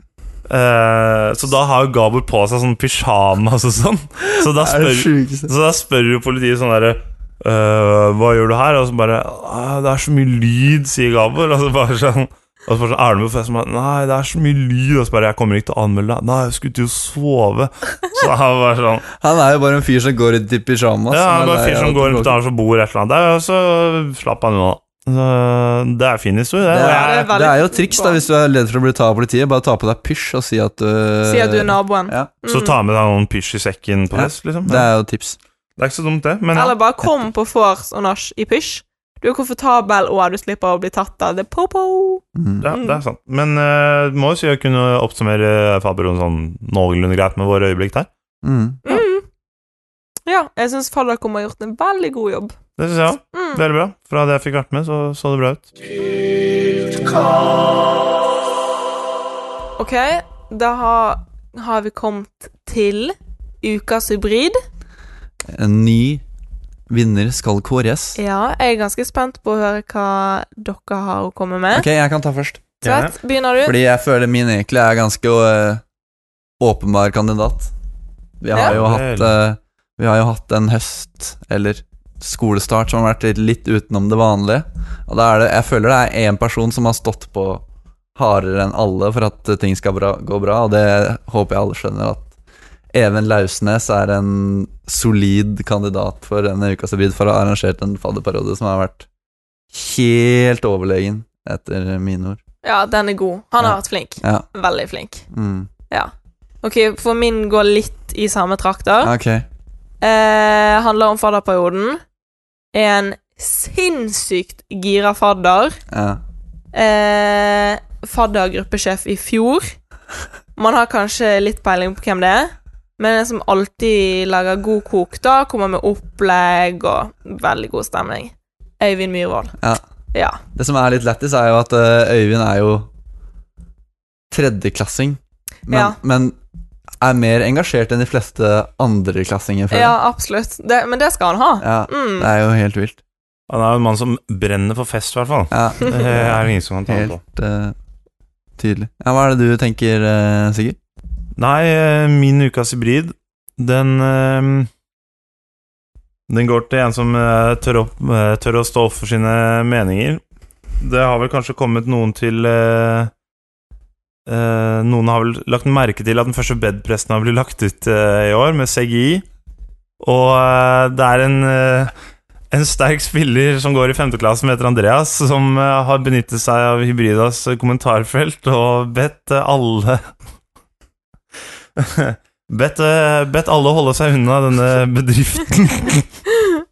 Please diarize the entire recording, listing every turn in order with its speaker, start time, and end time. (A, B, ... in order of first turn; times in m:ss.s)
0:00.5-0:19.1 A
0:04.4-0:05.5 B
0:19.2-0:22.4 B
0:21.1-0:27.3 A
0:26.7-0:32.3 B
0:26.8-0:28.2 C
0:31.2-0:32.8 C
0:32.4-0:34.9 A
0:34.1-0:35.4 B
0:35.8-0:36.8 A
0:36.5-0:43.0 C
0:42.3-0:42.7 B
0:42.6-0:48.1 A
0:48.4-0:48.8 B
0:48.8-0:49.3 C
0:50.2-0:52.6 C
0:52.8-0:55.7 A
0:53.3-0:53.6 C
0:59.8-1:04.6 C
1:05.5-1:06.2 B
1:06.9-1:08.2 B
1:08.2-1:11.9 C
1:11.7-1:12.7 B
1:12.8-1:13.1 A
1:12.8-1:13.8 C
1:13.6-1:15.8 B
1:16.6-1:17.7 B
1:18.4-1:27.6 B
1:18.6-1:19.4 A
1:28.2-1:32.3 B
1:32.9-1:39.1 B
1:39.7-1:42.4 B
1:42.6-1:45.2 C
1:43.6-1:44.4 B
1:45.3-1:45.7 B
1:46.6-1:49.1 C
1:49.0-1:49.4 B
1:50.0-1:52.0 C
1:52.7-1:55.8 C
1:55.9-1:56.2 B
1:56.7-1:59.8 C
2:00.6-2:09.6 C
2:10.1-2:10.4 C
2:10.5-2:12.9 B
2:14.3-2:16.4 B
2:15.7-2:16.0 C
2:17.0-2:20.0 B
2:19.7-2:22.3 C
2:21.6-2:23.0 B
2:23.5-2:27.2 A
2:25.5-2:27.7 B
2:28.6-2:30.8 B
2:31.4-2:34.7 A
2:36.3-2:40.2 A
2:40.8-2:43.1 A
2:44.2-2:49.2 A
2:50.0-2:51.9 A
2:52.5-3:00.0 A
3:01.8-3:06.1 A